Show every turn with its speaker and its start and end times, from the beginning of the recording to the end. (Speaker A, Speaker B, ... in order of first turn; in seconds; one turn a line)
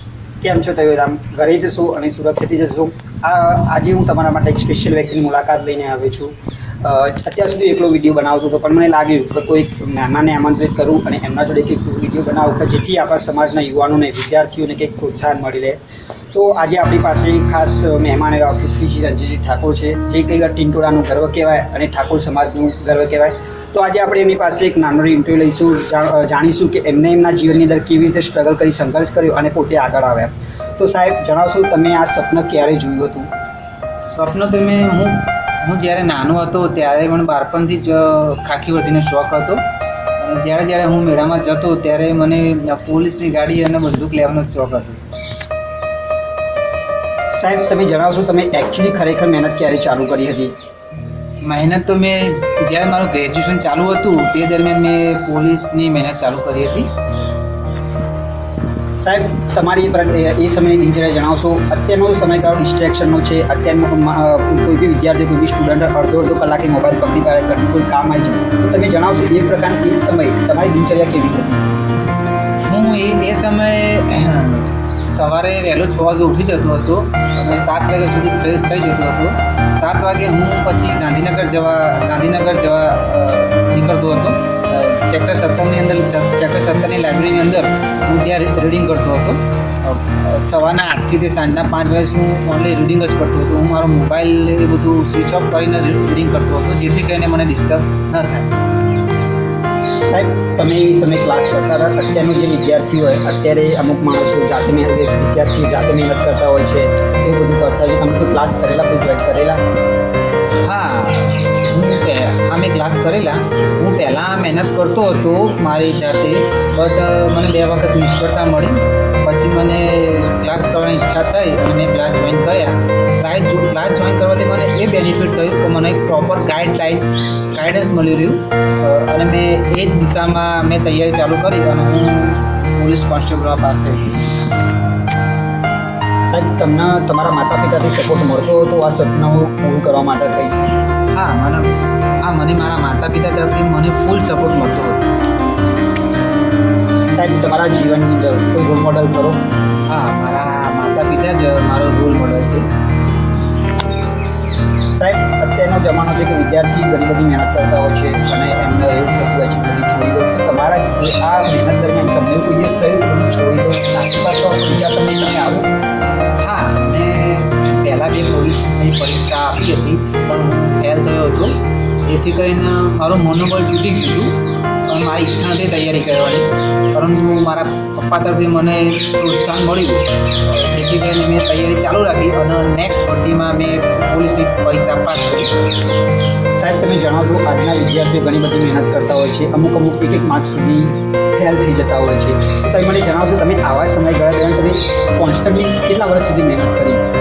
Speaker A: 0.4-15.8
Speaker A: 16.3-33.3
Speaker B: 34.0-39.6
Speaker B: 40.2-45.0
Speaker A: 47.4-50.5
Speaker B: 51.4-56.9
Speaker A: 59.0-71.6
Speaker B: 72.7-98.5
Speaker A: 100.0-109.6
Speaker B: 110.7-134.3
Speaker A: 136.3-140.6
Speaker B: 141.1-145.1
Speaker A: 147.1-149.4
Speaker B: 149.9-152.7
Speaker A: 154.9-165.7
Speaker B: 166.4-185.5
Speaker A: 186.6-197.0